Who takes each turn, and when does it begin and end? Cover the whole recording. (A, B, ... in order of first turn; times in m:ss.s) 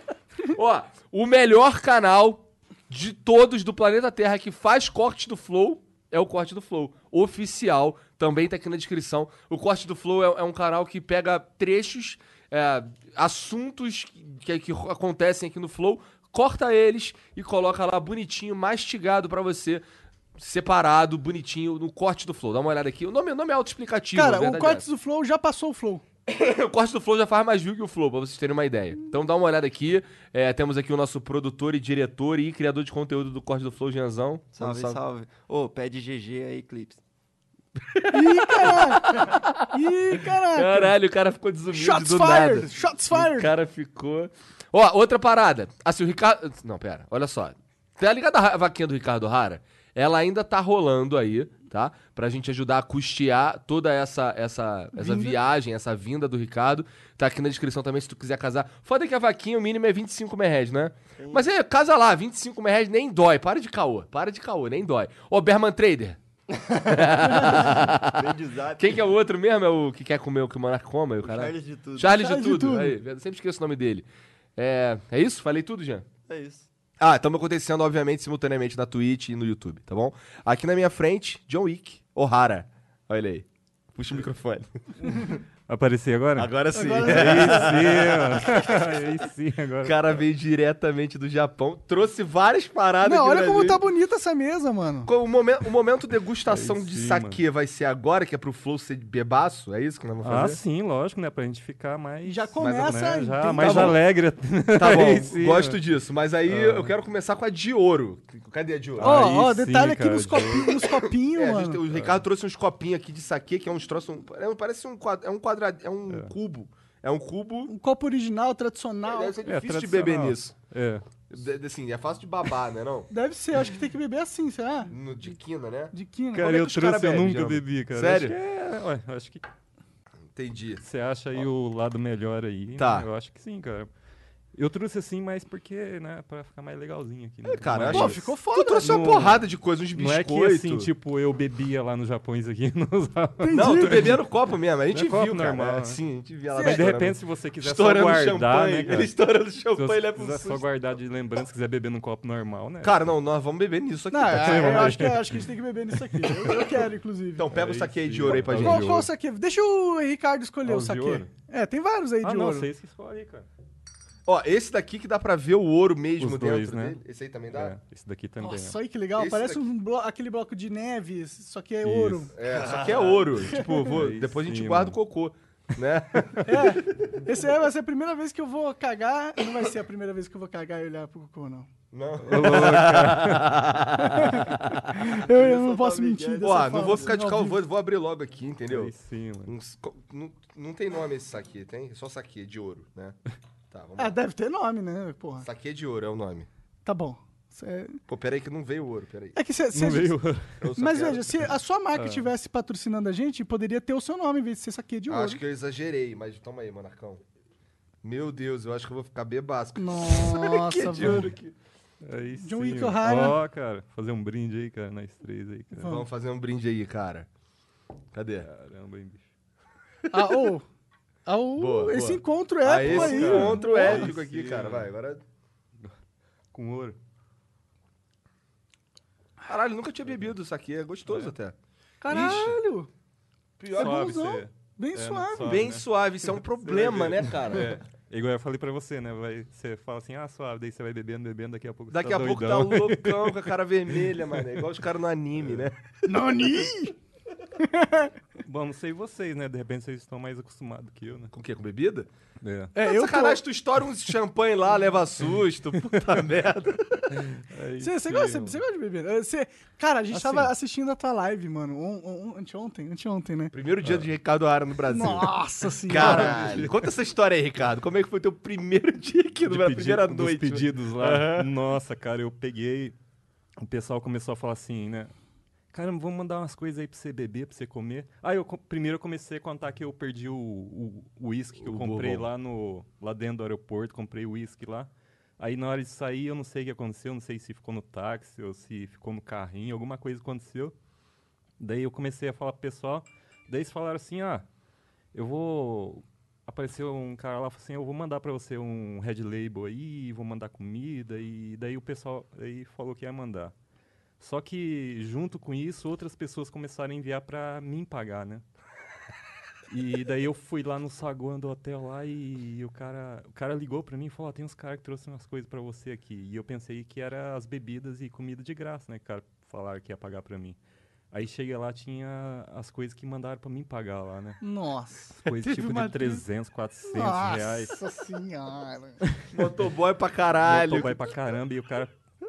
0:00.4-0:19.8 A
0:20.3-0:24.8 A
0:24.1-0:26.0 B
0:26.3-0:35.0 A
0:34.5-0:37.0 C
0:37.9-0:39.7 A
0:38.1-0:39.2 B
0:39.7-0:41.0 B
0:40.3-1:06.2 A
0:41.7-0:43.5 B
0:54.9-0:55.4 B
1:01.2-1:01.4 C
1:06.6-1:09.0 C
1:06.8-1:14.0 A
1:11.2-1:12.2 C
1:12.0-1:13.0 B
1:14.6-1:16.1 A
1:16.3-1:16.6 C
1:17.0-1:24.7 A
1:25.1-1:30.2 D
1:26.4-1:28.9 A
1:26.7-1:27.8 B
1:29.8-1:33.8 A
1:33.0-1:35.1 B
1:35.0-1:40.6 A
1:36.5-1:37.4 D
1:40.2-1:45.8 D
1:42.2-1:44.0 B
1:42.6-1:42.9 A
1:43.6-1:44.0 A
1:44.7-1:49.3 A
1:46.4-1:46.9 D
1:49.0-1:50.7 D
1:49.0-1:51.8 B
1:50.8-1:57.7 A
1:51.9-1:52.2 D
1:56.1-1:56.3 D
1:57.6-1:59.4 B
1:59.1-2:00.6 A
1:59.4-2:01.0 D
2:01.3-2:03.1 A
2:03.1-2:04.9 B
2:04.9-2:08.4 A
2:05.9-2:06.5 B
2:06.3-2:09.5 D
2:10.3-2:10.8 A
2:10.8-2:13.9 D
2:12.8-2:13.1 A
2:14.5-2:24.1 D
2:17.4-2:20.9 A
2:17.8-2:19.2 B
2:23.4-2:24.2 B
2:23.5-2:30.6 A
2:24.9-2:26.0 D
2:26.5-2:29.1 D
2:26.5-2:26.8 B
2:29.7-2:33.1 D
2:32.8-2:35.0 A
2:34.1-2:37.5 B
2:34.3-2:35.4 D
2:36.1-2:36.6 D
2:37.4-2:39.0 A
2:37.5-2:39.1 D
2:38.3-2:42.7 B
2:40.6-2:41.3 D
2:42.2-2:43.5 D
2:44.2-2:47.7 A
2:46.2-2:47.0 D
2:47.5-2:48.8 D
2:48.4-2:52.3 B
2:49.2-2:49.6 A
2:51.8-2:55.0 D
2:52.3-2:57.0 A
2:56.2-2:56.4 D
2:56.4-3:01.7 B
3:01.9-3:05.2 A
3:02.3-3:03.5 D
3:04.0-3:07.6 B
3:05.3-3:07.1 C
3:06.4-3:08.9 A
3:08.7-3:09.5 D
3:09.4-3:13.2 A
3:13.7-3:14.2 A
3:14.0-3:15.5 B
3:15.4-3:16.5 A
3:16.8-3:18.0 B
3:18.1-3:19.4 A
3:19.3-3:20.2 B
3:19.7-3:20.6 D
3:20.6-3:21.3 A
3:20.8-3:25.4 B
3:21.9-3:22.3 D
3:25.1-3:27.2 A
3:28.0-3:31.5 A
3:29.8-3:31.3 B
3:30.8-3:31.3 D
3:32.0-3:35.9 D
3:32.4-3:33.4 B
3:35.7-3:36.0 B
3:35.8-3:37.3 A
3:38.1-3:38.5 A
3:38.4-3:39.2 D
3:40.1-3:40.5 A
3:40.1-3:40.6 B
3:41.2-3:44.2 B
3:41.6-3:45.2 A
3:42.8-3:44.9 D
3:46.5-3:47.0 D
3:49.4-3:52.6 A
3:51.1-3:51.3 D
3:52.0-3:52.9 B
3:53.6-3:54.1 A
3:53.7-3:55.6 B
3:53.7-3:55.8 D
3:55.4-3:57.8 A
3:56.6-4:04.6 D
4:01.9-4:05.7 A
4:05.4-4:05.6 D
4:06.0-4:07.0 B
4:07.6-4:08.1 B
4:08.4-4:11.3 D
4:11.3-4:12.1 A
4:12.4-4:12.7 D
4:12.7-4:13.4 B
4:12.8-4:17.0 A
4:15.7-4:16.2 D
4:17.1-4:18.6 D
4:17.8-4:23.5 B
4:20.1-4:20.5 D
4:23.5-4:31.5 A
4:23.8-4:24.1 D
4:24.9-4:26.5 B
4:25.9-4:26.8 D
4:29.4-4:32.9 D
4:33.6-4:35.1 D
4:35.7-4:50.7 D
4:41.6-4:42.3 A
4:51.6-4:54.4 D
4:55.1-5:03.5 D
5:04.2-5:08.4 D
5:09.7-5:20.6 D
5:21.1-5:24.4 D
5:24.4-5:25.3 B
5:25.2-5:27.8 D
5:25.4-5:26.2 A
5:26.9-5:29.0 B
5:29.0-5:29.5 D
5:29.3-5:31.1 A
5:30.4-5:31.9 D